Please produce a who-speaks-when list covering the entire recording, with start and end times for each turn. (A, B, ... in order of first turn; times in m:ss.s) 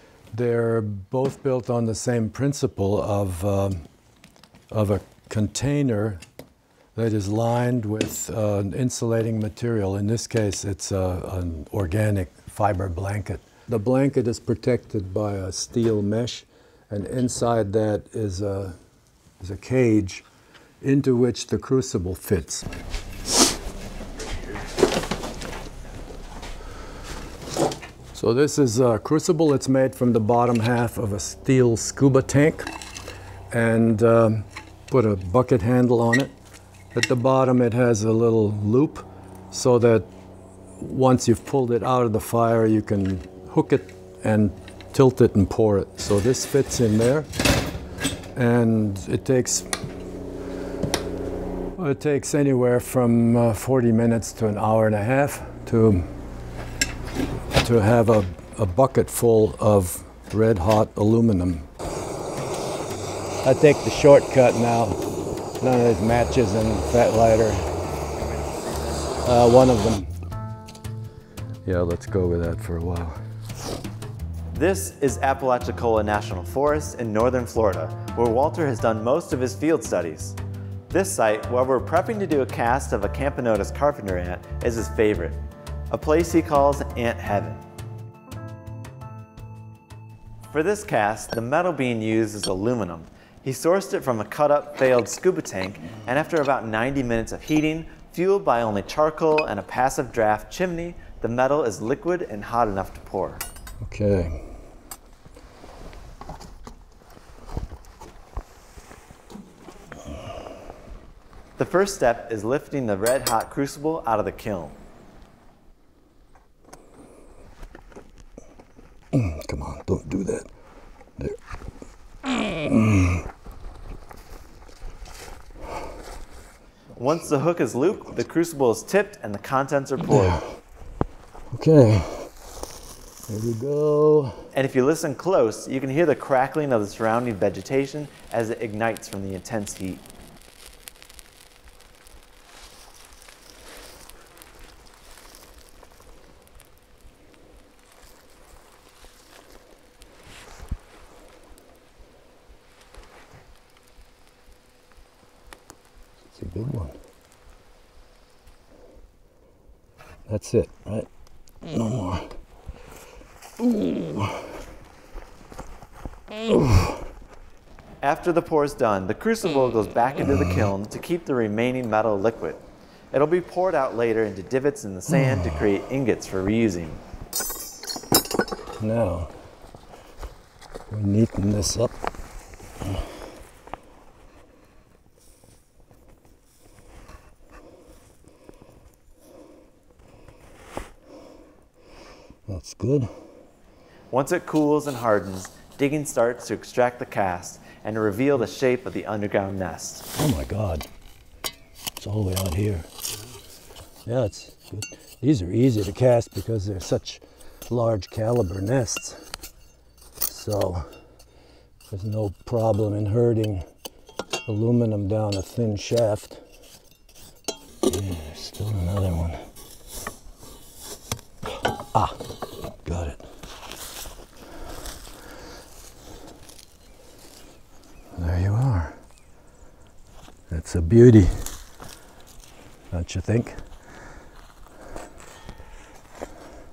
0:00.3-0:03.8 A
0:04.7-0:06.2 A
0:06.9-0:18.8 A
0:19.4-0:20.2 A
0:20.8-0:22.7 A
0:28.1-0:32.7 A
0:33.5-0:36.3 A
0:36.9-0:40.1 A
0:40.8-0:47.3 A
0:48.3-0:49.7 A
0:51.8-0:56.1 A
0:57.5-1:01.7 A
1:03.4-1:05.0 A
1:05.6-1:07.6 A
1:09.2-1:10.1 A
1:11.6-1:13.2 A
1:14.5-1:20.4 B
1:20.9-1:25.4 B
1:25.9-1:27.6 B
1:30.5-1:43.4 B
1:43.8-1:44.4 A
1:51.6-1:54.8 B
1:59.1-2:00.5 A
2:02.2-2:03.2 A
2:07.0-2:10.4 B
2:10.1-2:10.4 A
2:11.5-2:12.3 A
2:13.3-2:14.4 A
2:14.5-2:20.0 B
2:36.3-2:37.0 A
2:40.3-2:41.1 A
2:41.6-2:42.3 A
2:43.6-2:44.5 A
2:46.3-2:47.0 A
2:48.0-2:57.0 B
2:58.8-2:59.3 A
3:00.9-3:01.9 A
3:12.5-3:13.1 A
3:14.1-3:20.1 B
3:20.2-3:20.9 A
3:22.0-3:22.9 A
3:24.0-3:29.2 A
3:30.2-3:30.9 A
3:31.9-3:33.6 A
3:34.4-3:36.4 A
3:37.8-3:39.4 A
3:41.9-3:42.2 A
3:42.8-3:43.2 A
3:48.1-3:49.0 A
3:50.5-3:51.5 A
3:52.9-3:53.6 A